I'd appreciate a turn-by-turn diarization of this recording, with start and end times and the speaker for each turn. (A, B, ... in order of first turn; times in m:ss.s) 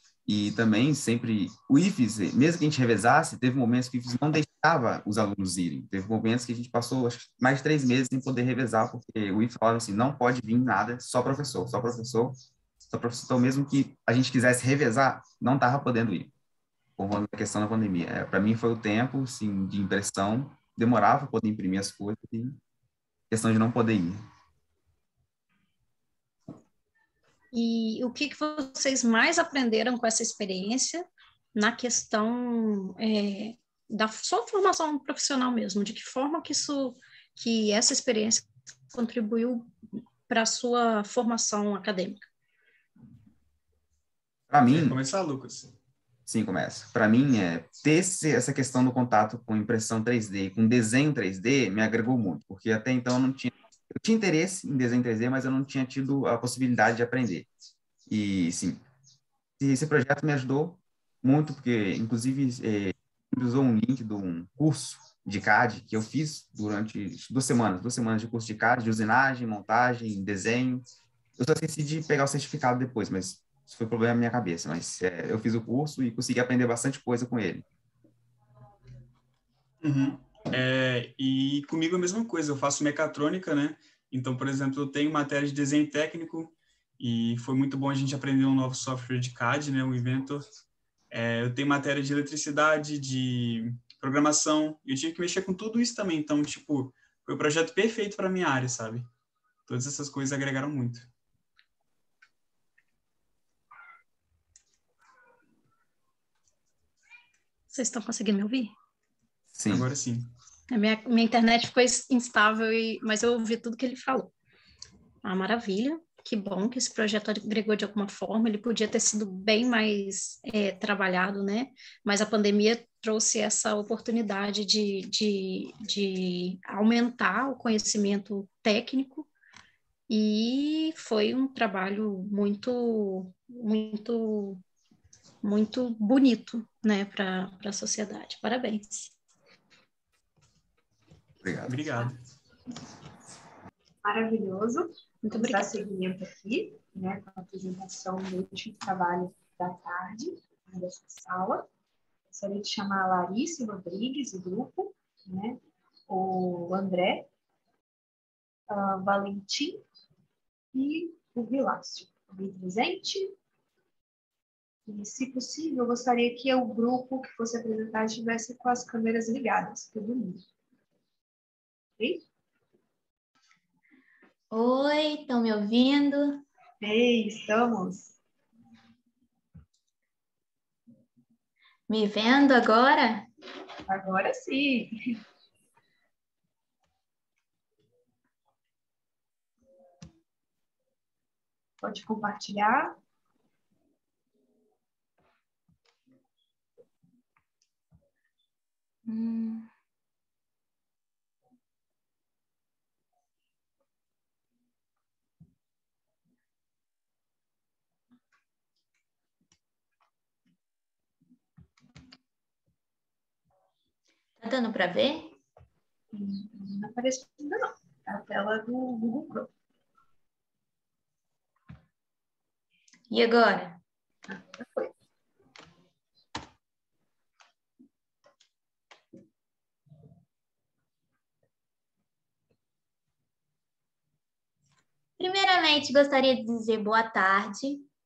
0:00.2-0:16.3 A
0:17.0-0:22.6 A
0:23.3-0:24.2 A
0:27.5-0:39.7 B
0:40.3-0:42.2 B
0:44.5-0:45.0 A
0:44.6-0:45.7 C
0:46.2-0:57.5 A
0:58.1-0:58.8 A
0:59.6-1:10.8 A
1:11.4-1:17.6 A
1:19.8-1:30.5 C
1:31.1-1:39.1 C
1:39.7-1:41.1 C
1:47.7-1:48.7 B
1:49.5-1:49.9 A
1:49.7-1:50.3 C
1:50.7-1:54.3 B
1:55.2-2:09.3 B
2:10.1-2:14.6 B
2:15.4-2:19.1 B
2:21.4-2:21.9 A
2:21.6-2:22.2 C
2:24.0-2:31.7 D
2:25.2-2:25.7 B
2:32.3-2:37.3 D
2:38.7-2:39.8 D
2:40.7-2:43.4 D
2:44.9-2:50.4 D
2:52.0-2:52.2 D
2:54.5-2:56.4 E
2:56.8-2:58.2 D
3:01.9-3:03.3 E
3:03.9-3:04.9 D
3:11.8-3:13.0 D
3:19.0-3:19.7 E
3:34.4-3:35.3 E
3:36.1-3:39.5 D
3:43.1-3:43.8 E
3:44.3-3:44.9 D
3:55.2-3:57.9 E